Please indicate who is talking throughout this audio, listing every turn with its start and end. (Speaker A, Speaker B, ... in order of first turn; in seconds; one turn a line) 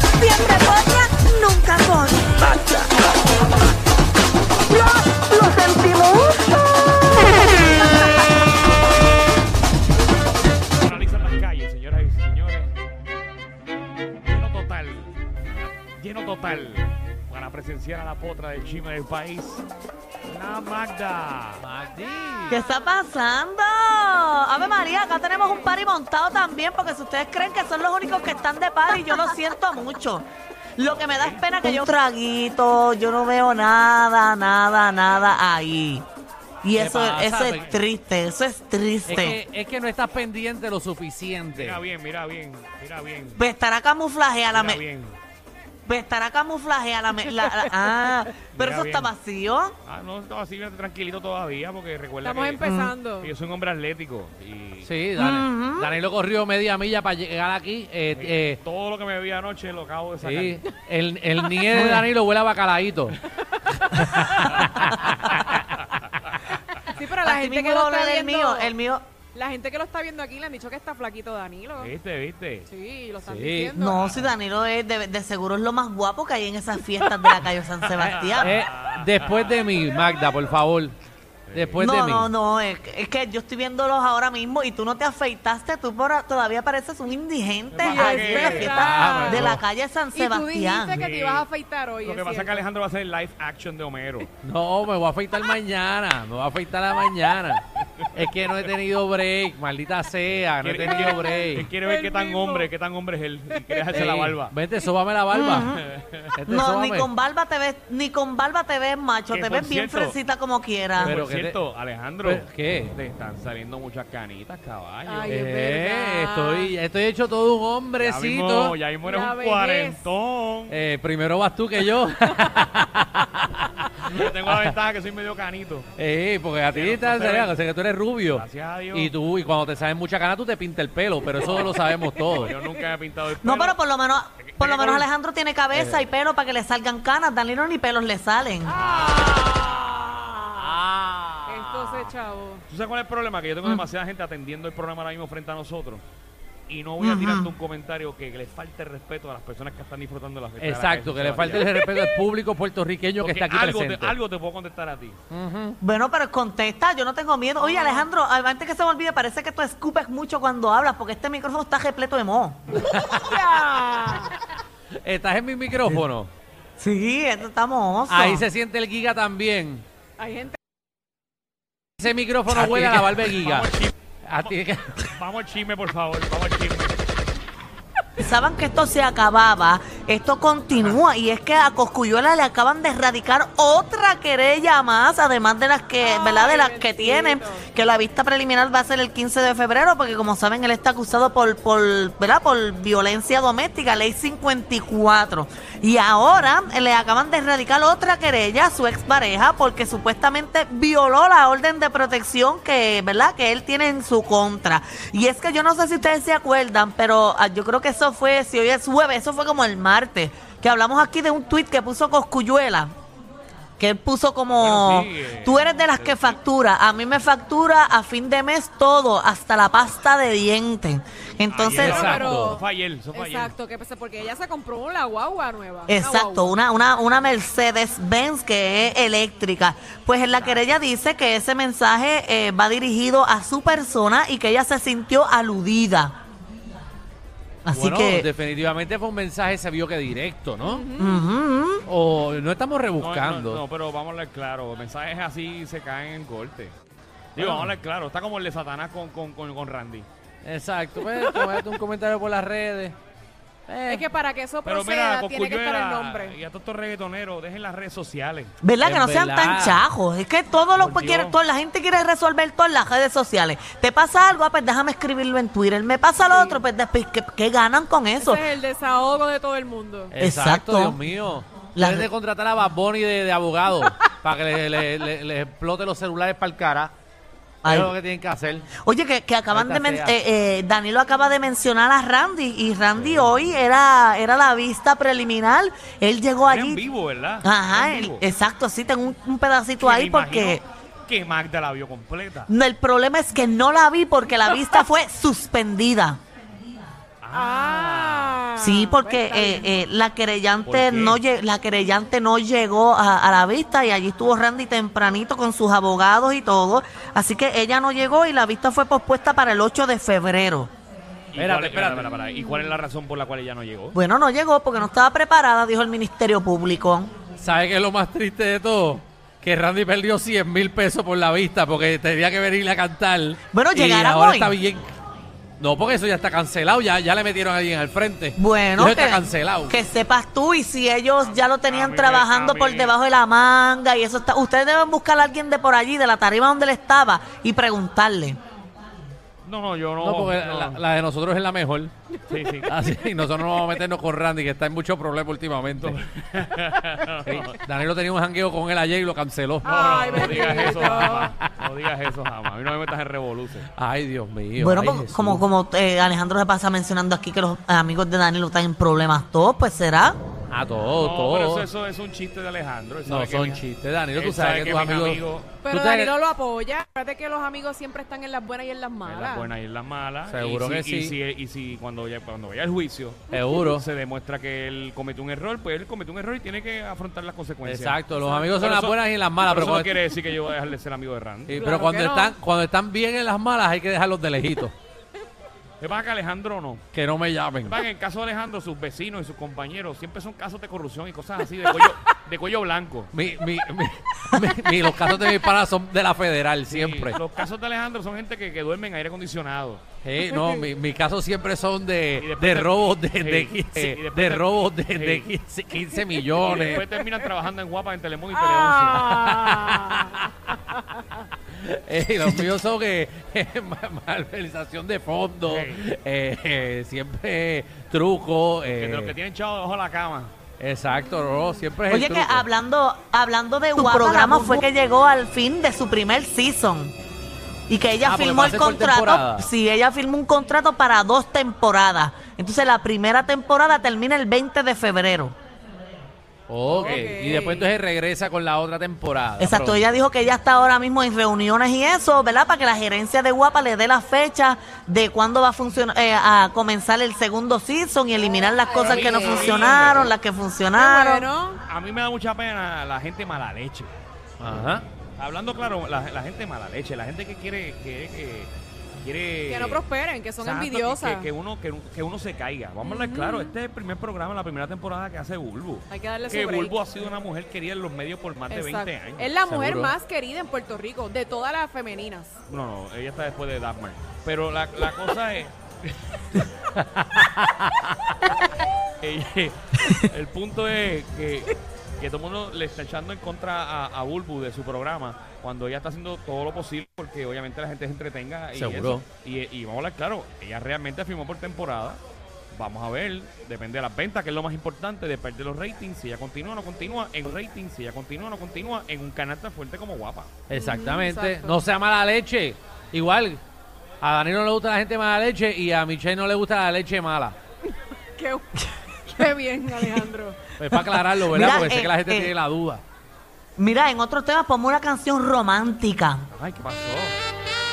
Speaker A: 0.2-2.8
Speaker A: 4.7-6.6
Speaker B: 10.8-12.8
Speaker B: 14.2-15.1
Speaker B: 16.0-19.6
Speaker B: 20.2-21.6
Speaker C: 21.6-22.6
Speaker A: 22.5-30.2
Speaker A: 30.8-36.0
Speaker B: 30.8-31.5
Speaker A: 36.6-39.4
Speaker C: 36.7-37.7
Speaker B: 37.4-37.8
Speaker C: 39.0-41.8
Speaker B: 41.5-43.4
Speaker A: 43.4-44.8
Speaker B: 44.5-45.1
Speaker A: 45.9-49.7
Speaker D: 47.3-47.7
Speaker B: 48.5-49.1
Speaker B: 49.8-52.6
Speaker D: 52.2-53.3
Speaker A: 52.6-52.9
Speaker B: 53.2-54.9
Speaker C: 54.8-58.6
Speaker A: 55.2-55.9
Speaker B: 58.1-60.6
Speaker C: 60.2-63.2
Speaker A: 61.7-62.0
Speaker C: 63.9-65.6
Speaker D: 66.8-68.7
Speaker A: 67.2-69.0
Speaker D: 69.3-71.9
Speaker B: 71.8-72.7
Speaker D: 72.7-74.3
Speaker C: 73.2-73.7
Speaker A: 73.7-78.5
Speaker B: 78.0-79.6
Speaker C: 78.0-81.0
Speaker B: 81.5-81.8
Speaker C: 81.5-82.3
Speaker A: 81.8-91.0
Speaker B: 87.7-88.8
Speaker D: 87.8-89.5
Speaker C: 88.8-89.6
Speaker D: 90.1-92.6
Speaker B: 90.9-91.5
Speaker B: 92.0-94.3
Speaker C: 94.4-101.7
Speaker B: 100.6-104.5
Speaker D: 101.1-102.7
Speaker C: 103.9-105.7
Speaker A: 105.3-105.8
Speaker B: 105.5-106.3
Speaker C: 106.3-107.1
Speaker A: 106.5-111.1
Speaker B: 109.3-110.2
Speaker B: 111.0-115.4
Speaker C: 111.0-111.5
Speaker C: 112.2-112.9
Speaker D: 115.0-116.7
Speaker C: 115.3-118.8
Speaker B: 118.0-120.7
Speaker D: 119.0-120.0
Speaker C: 120.7-123.9
Speaker B: 124.0-125.9
Speaker C: 124.4-124.7
Speaker C: 126.0-132.5
Speaker B: 126.7-127.5
Speaker B: 128.3-129.1
Speaker B: 131.4-133.8
Speaker D: 132.4-132.7
Speaker A: 133.4-138.9
Speaker B: 134.4-135.1
Speaker C: 135.7-136.1
Speaker D: 138.6-140.8
Speaker C: 140.5-142.1
Speaker D: 141.4-142.6
Speaker B: 142.7-146.0
Speaker B: 146.7-151.9
Speaker A: 147.0-147.5
Speaker C: 150.6-154.1
Speaker B: 153.2-155.2
Speaker C: 155.3-155.8
Speaker A: 155.8-162.6
Speaker D: 157.6-158.1
Speaker C: 162.7-163.4
Speaker D: 162.9-164.4
Speaker C: 165.0-166.3
Speaker A: 166.8-168.4
Speaker C: 168.1-169.8
Speaker D: 170.2-170.6
Speaker C: 172.0-173.7
Speaker B: 172.5-174.5
Speaker C: 174.2-175.1
Speaker B: 175.1-177.0
Speaker A: 178.2-212.9
Speaker D: 186.0-187.7
Speaker A: 213.8-222.1
Speaker B: 214.6-216.4
Speaker B: 221.5-223.5
Speaker C: 221.7-222.6
Speaker D: 221.9-222.6
Speaker D: 223.1-226.5
Speaker A: 225.9-236.2
Speaker B: 230.3-230.6
Speaker A: 237.6-238.3
Speaker C: 237.7-240.8
Speaker D: 240.6-241.3
Speaker A: 241.0-241.8
Speaker C: 241.8-243.6
Speaker B: 243.0-246.7
Speaker B: 247.3-250.1
Speaker C: 247.4-247.7
Speaker C: 250.4-253.0
Speaker C: 253.7-254.0
Speaker D: 253.8-256.4
Speaker B: 254.6-258.5
Speaker A: 258.6-268.4
Speaker C: 258.8-259.8
Speaker B: 260.8-261.4
Speaker D: 266.2-266.6
Speaker D: 268.1-270.1
Speaker C: 270.1-276.9
Speaker A: 270.2-271.0
Speaker A: 271.8-272.1
Speaker A: 277.6-277.9
Speaker C: 277.6-278.7
Speaker A: 278.8-286.8
Speaker C: 279.5-280.2
Speaker C: 283.0-283.3
Speaker B: 286.5-288.2
Speaker A: 287.4-290.6
Speaker B: 289.8-292.5
Speaker A: 292.5-296.2
Speaker B: 297.2-298.4
Speaker D: 297.3-299.8
Speaker A: 298.6-310.7
Speaker B: 300.6-301.2
Speaker B: 311.3-314.0
Speaker C: 311.4-312.1
Speaker A: 313.9-317.1
Speaker C: 317.4-324.9
Speaker A: 323.5-324.5
Speaker C: 325.6-329.8
Speaker A: 328.4-338.4
Speaker B: 331.4-332.9
Speaker B: 339.4-340.8
Speaker C: 340.0-341.9
Speaker B: 342.3-342.7
Speaker C: 342.6-346.0
Speaker B: 345.7-347.5
Speaker C: 347.2-349.9
Speaker D: 349.6-351.3
Speaker B: 349.6-353.7
Speaker C: 351.2-351.5
Speaker C: 353.7-355.4
Speaker A: 354.6-360.2
Speaker C: 360.5-361.6
Speaker B: 360.9-363.6
Speaker C: 363.1-366.1
Speaker B: 364.1-365.6
Speaker D: 365.6-369.5
Speaker B: 369.0-378.1
Speaker C: 370.3-371.1
Speaker C: 373.3-373.9
Speaker C: 377.6-380.0
Speaker D: 378.1-378.6
Speaker B: 378.6-381.7
Speaker C: 381.5-384.7
Speaker D: 381.5-382.4
Speaker B: 385.8-386.8
Speaker C: 386.9-387.8
Speaker B: 387.6-393.1
Speaker C: 393.1-397.2
Speaker B: 396.7-399.8
Speaker C: 400.0-406.8
Speaker D: 400.3-400.6
Speaker B: 402.1-405.2
Speaker B: 406.4-409.2
Speaker D: 408.4-410.1
Speaker C: 408.8-419.1
Speaker B: 415.4-415.8
Speaker B: 418.7-420.3
Speaker C: 420.6-422.4
Speaker A: 421.9-426.9
Speaker D: 423.8-424.6
Speaker A: 427.7-435.3
Speaker C: 428.0-429.5
Speaker C: 436.5-439.9
Speaker D: 436.6-437.7
Speaker B: 436.7-437.1
Speaker A: 439.4-451.3
Speaker B: 448.8-450.1
Speaker D: 449.1-449.5
Speaker D: 450.7-451.6
Speaker B: 451.7-453.9
Speaker C: 454.4-454.9
Speaker B: 455.2-458.5
Speaker B: 459.0-459.8
Speaker D: 459.4-461.3
Speaker B: 460.4-469.3
Speaker D: 462.8-463.6
Speaker D: 465.9-466.8
Speaker D: 468.5-472.3
Speaker C: 469.4-469.9
Speaker B: 472.5-475.9
Speaker C: 476.8-478.1
Speaker B: 479.0-492.0
Speaker C: 488.5-489.0
Speaker B: 492.5-500.3
Speaker C: 500.5-503.4
Speaker D: 500.5-501.6
Speaker C: 504.0-507.4
Speaker D: 508.1-510.5
Speaker C: 510.6-512.8
Speaker A: 511.2-512.3
Speaker A: 513.6-516.2
Speaker B: 516.3-517.1